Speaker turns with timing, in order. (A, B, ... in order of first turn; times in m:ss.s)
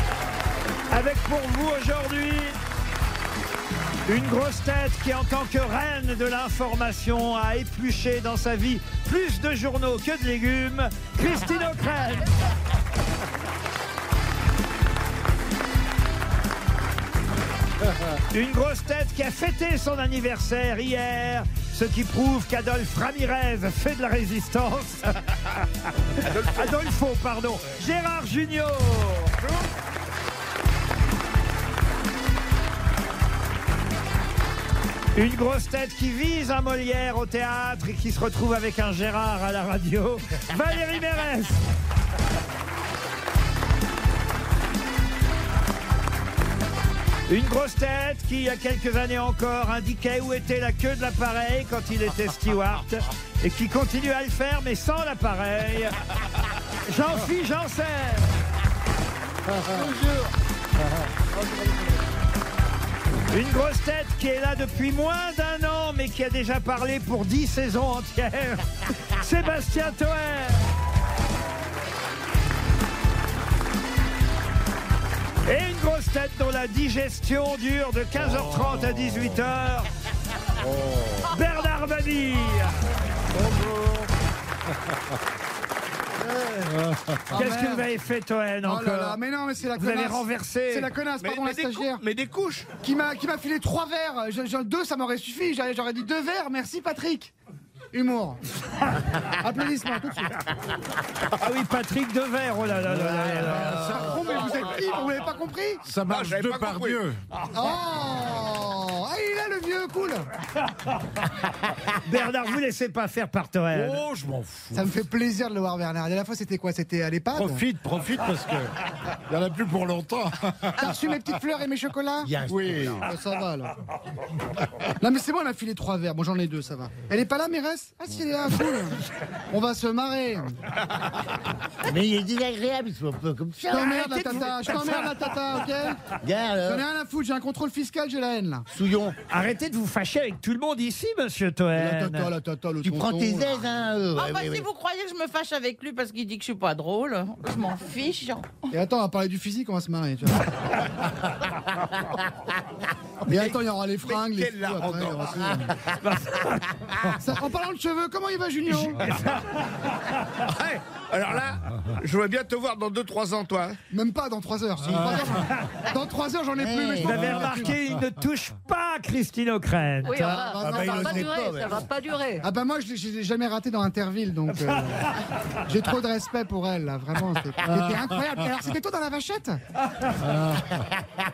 0:00.9-0:02.6 A
0:04.1-0:12.3 A
0:18.3-0:25.4 A
0:26.2-0:29.4 A
0:35.1-0:41.6 A
0:47.3-0:55.9 A
0:56.8-0:58.3 A
1:03.3-1:10.6 A
1:15.4-1:19.9 A
1:20.8-1:21.1 B
1:21.3-1:22.7 A
1:27.3-1:27.9 C
1:27.3-1:29.2 A
1:28.6-1:32.0 C
1:29.7-1:30.9 A
1:31.2-1:32.7 D
1:32.8-1:37.3 C
1:37.9-1:38.4 C
1:39.1-1:40.4 C
1:41.3-1:44.1 A
1:43.3-1:43.9 E
1:43.5-1:44.4 B
1:43.5-1:45.8 C
1:45.8-1:47.2 B
1:46.1-1:47.0 D
1:47.5-1:50.2 C
1:51.9-1:54.0 A
1:53.7-1:54.9 B
1:54.7-1:57.6 C
1:57.3-1:58.7 B
1:59.3-2:00.8 B
2:00.8-2:02.3 C
2:02.2-2:03.1 E
2:02.4-2:03.1 B
2:03.0-2:03.8 C
2:05.0-2:10.6 C
2:11.8-2:14.4 E
2:13.7-2:16.0 C
2:13.7-2:15.2 A
2:16.2-2:16.8 E
2:16.6-2:18.6 C
2:18.7-2:19.2 E
2:19.3-2:22.3 A
2:21.7-2:23.6 C
2:22.8-2:24.7 E
2:24.2-2:28.7 F
2:28.7-2:30.7 C
2:33.2-2:35.7 C
2:34.0-2:35.3 D
2:36.0-2:36.6 A
2:37.2-2:39.0 C
2:38.7-2:39.4 A
2:40.5-2:43.8 D
2:43.9-2:47.7 C
2:44.8-2:45.5 E
2:46.6-2:47.7 E
2:47.0-2:50.4 A
2:50.0-2:52.4 G
2:50.2-2:51.3 C
2:50.6-2:51.9 E
2:52.4-2:55.1 C
2:55.7-2:59.6 C
3:00.6-3:00.8 E